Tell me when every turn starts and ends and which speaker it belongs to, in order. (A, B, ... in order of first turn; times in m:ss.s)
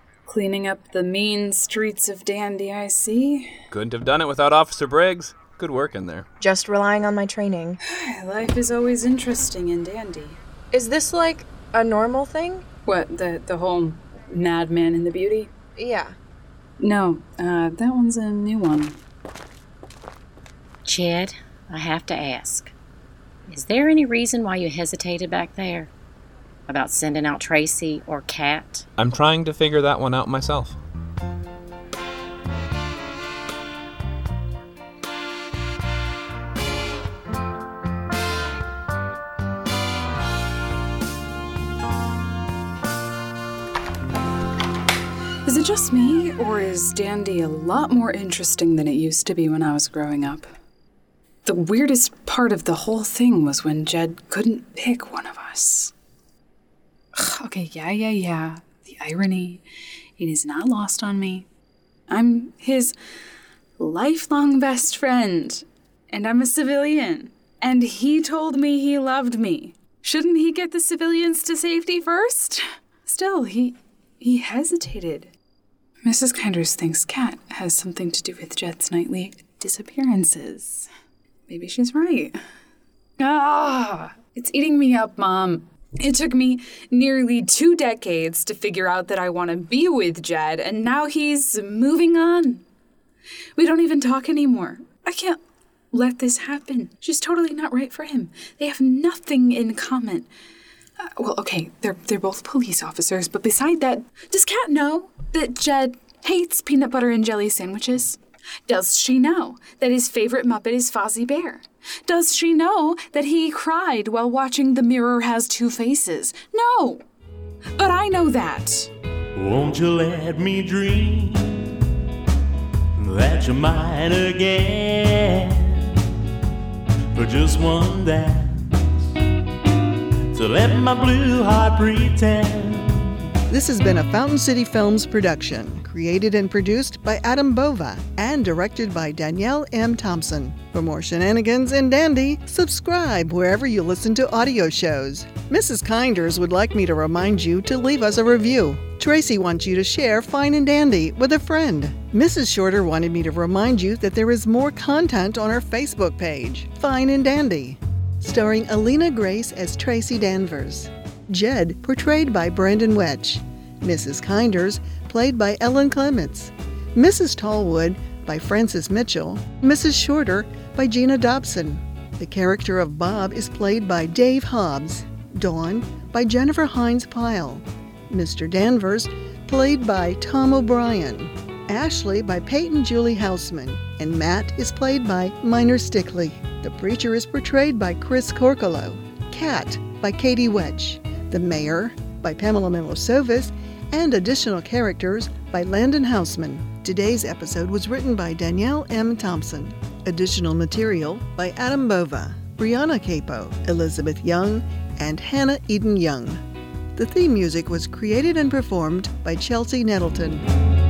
0:00.3-0:03.6 A
0:03.7-0:06.3 B
0:06.4-0:07.8 C
0:07.9-0:10.4 A
0:10.7-0:12.7 C
0:12.9-0:15.5 A
0:15.8-0:16.2 C
0:16.8-0:19.0 A
0:20.8-0:22.7 D
0:23.5-0:25.9 D
0:26.7-0:28.8 D
0:29.0-0:30.8 B
0:45.4-0:50.5 A
0:51.4-0:55.9 A
0:57.1-0:59.6 A
1:00.2-1:01.5 A
1:02.1-1:03.0 A
1:03.8-1:15.3 A
1:16.0-1:20.9 A
1:21.5-1:22.4 A
1:23.2-1:32.6 A
1:33.6-1:35.4 A
1:35.9-1:40.3 A
1:41.0-1:57.0 A
1:57.8-1:58.9 A
1:59.4-2:01.8 E
2:03.0-2:06.0 E
2:07.1-2:09.1 E
2:10.3-2:13.3 E
2:13.5-3:26.4 F
3:27.0-3:30.4 F